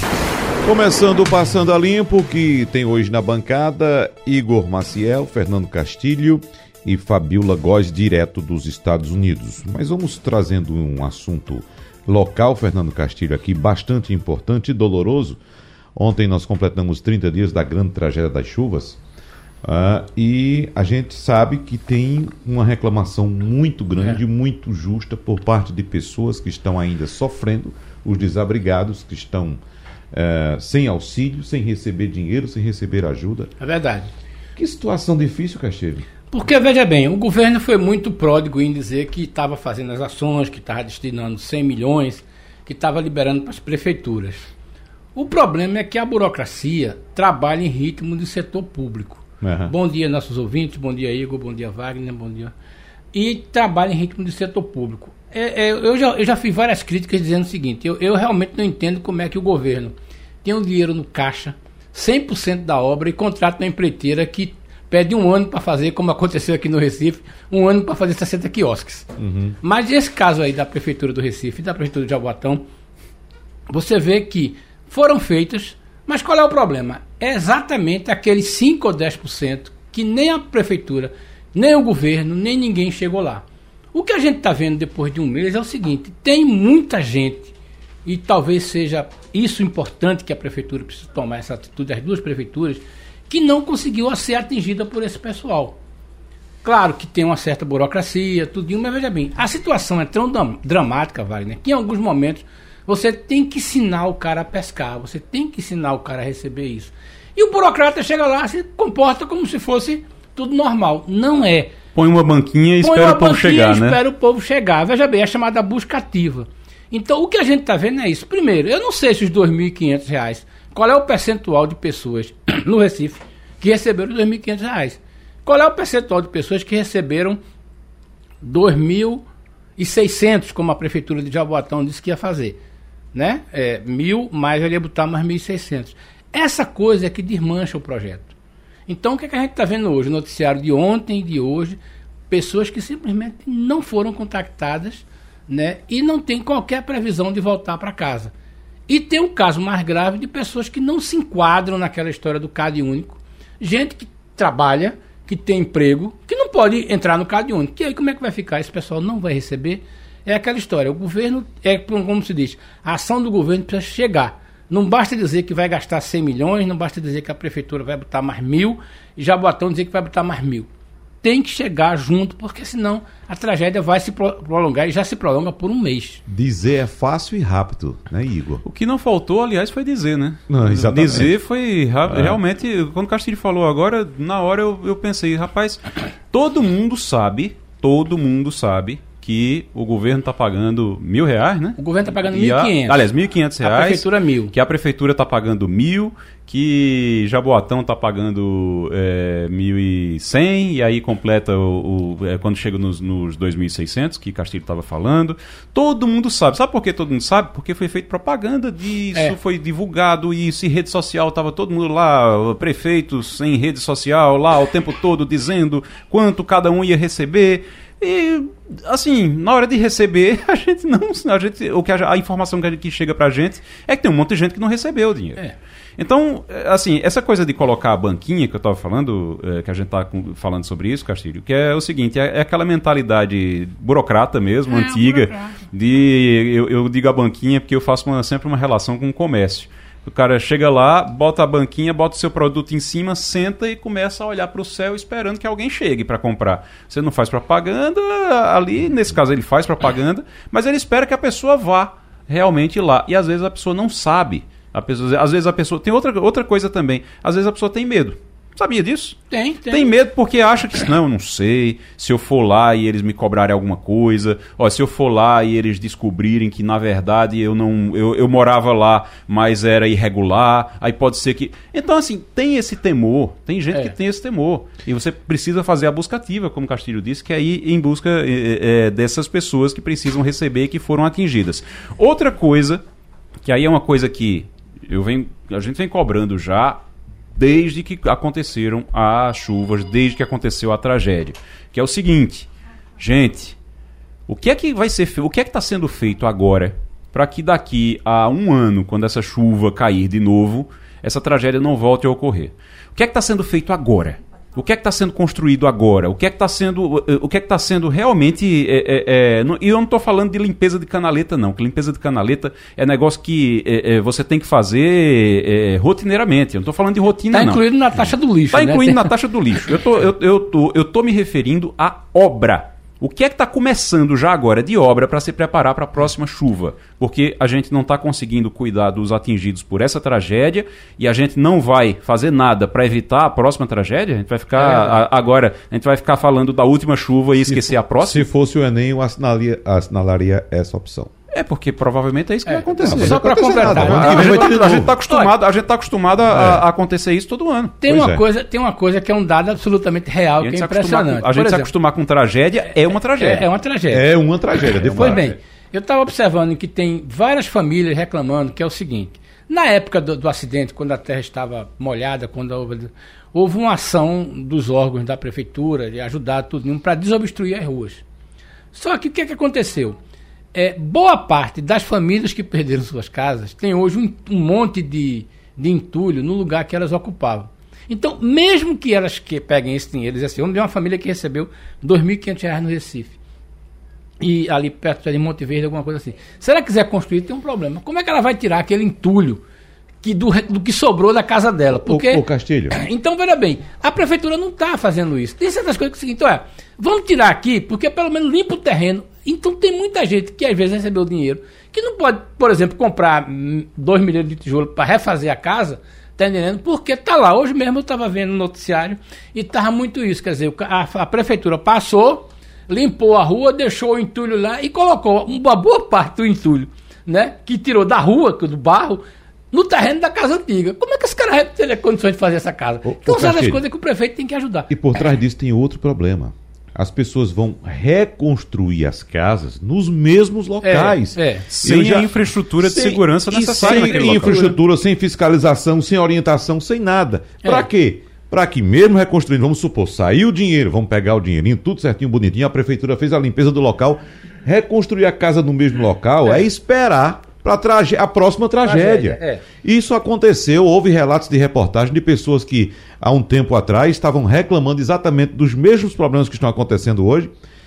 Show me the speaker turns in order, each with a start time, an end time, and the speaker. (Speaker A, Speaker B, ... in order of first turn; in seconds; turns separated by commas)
Speaker A: 0.6-15.4, Speaker A: 16.0-19.0, Speaker A: 19.6-29.6, Speaker A: 30.1-33.5, Speaker B: 33.6-34.1, Speaker A: 34.6-36.1, Speaker B: 36.3-44.5, Speaker B: 45.1-52.5, Speaker A: 49.4-49.7, Speaker B: 53.1-72.7, Speaker A: 69.2-69.6, Speaker B: 73.7-87.5, Speaker B: 88.0-95.8, Speaker B: 96.6-111.7, Speaker C: 112.0-114.0, Speaker B: 112.8-127.4, Speaker B: 128.4-129.2, Speaker B: 129.8-132.6, Speaker B: 133.1-138.3, Speaker B: 138.9-141.8, Speaker B: 142.3-148.3, Speaker B: 148.9-170.7, Speaker B: 171.2-176.2, Speaker A: 176.3-178.6, Speaker C: 178.7-225.4, Speaker A: 180.5-181.3, Speaker A: 182.1-182.4, Speaker B: 191.8-193.1, Speaker B: 193.6-194.5, Speaker C: 226.0-282.8, Speaker B: 234.7-235.6, Speaker B: 259.3-259.9, Speaker C: 283.4-293.6, Speaker C: 294.3-317.6, Speaker B: 317.3-319.1, Speaker C: 318.5-338.3, Speaker B: 334.6-335.0, Speaker A: 337.4-341.1, Speaker C: 341.3-347.8, Speaker B: 342.5-345.3, Speaker A: 342.8-344.9, Speaker A: 346.3-346.6, Speaker B: 347.8-351.7, Speaker A: 347.9-348.2, Speaker C: 350.4-353.5, Speaker B: 353.2-368.0, Speaker A: 353.9-355.4, Speaker B: 368.7-370.0, Speaker B: 370.5-383.2, Speaker B: 384.2-389.4, Speaker B: 390.0-424.7, Speaker A: 391.7-392.8, Speaker A: 422.8-423.6, Speaker A: 424.7-457.3, Speaker B: 430.6-431.5, Speaker C: 431.5-434.4, Speaker B: 433.3-434.6, Speaker B: 448.6-449.4